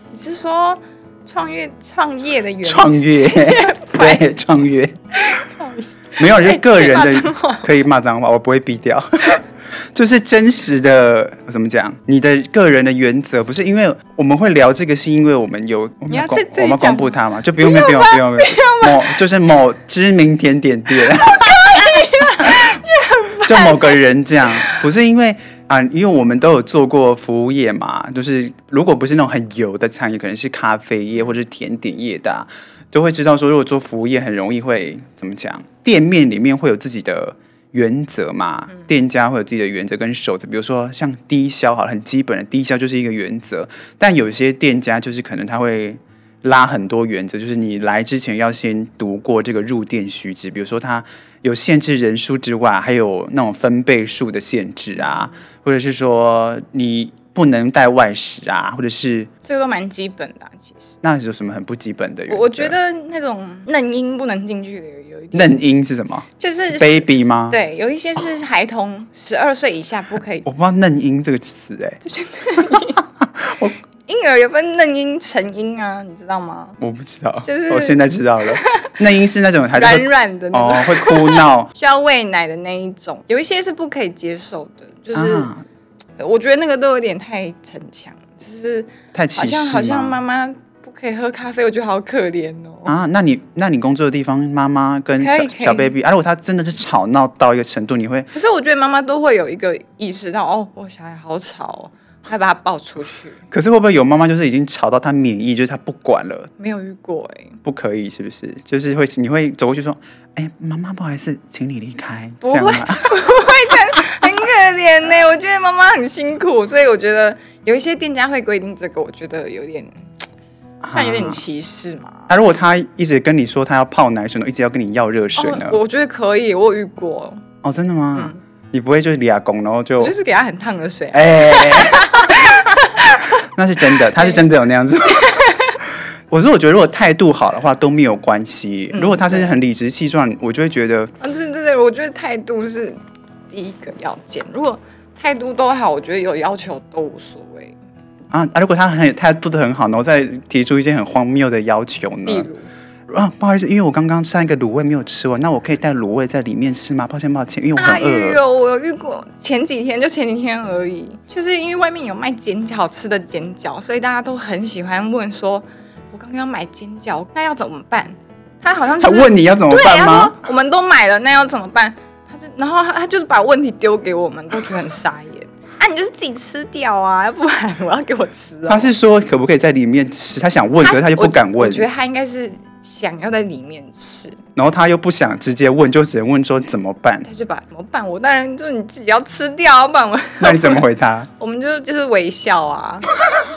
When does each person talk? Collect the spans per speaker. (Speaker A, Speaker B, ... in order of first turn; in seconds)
Speaker A: 0.1-4.2, 5.1-7.7, 16.1-19.2, 21.0-24.9, 59.4-61.0, 62.3-65.5, 66.4-70.5, 72.0-73.0, 74.0-76.8, 77.4-79.0, 79.7-85.5, 86.2-92.9, 95.2-95.9, 98.3-103.4, 106.6-107.6, 112.4-120.0, 120.9-122.3, 125.3-127.4, 128.1-128.4, 130.0-133.3, 134.0-134.5, 135.1-135.8, 138.9-139.5, 141.2-147.8, 152.2-152.7, 157.8-178.9, 180.8-184.4, 187.2-190.8, 191.4-193.1
Speaker B: 2.6-5.0, 6.2-22.8, 23.4-59.3, 61.0-62.8, 65.3-67.6, 70.4-72.0, 73.0-73.8, 76.8-81.7, 85.1-85.6, 89.1-90.2, 92.8-98.3, 103.5-106.5, 107.6-113.0, 120.8-121.4, 122.3-125.8, 127.6-130.1, 131.1-132.4, 133.4-141.1, 148.3-152.5, 153.1-158.4, 169.0-170.4, 178.7-181.9, 184.6-187.2, 190.4-191.3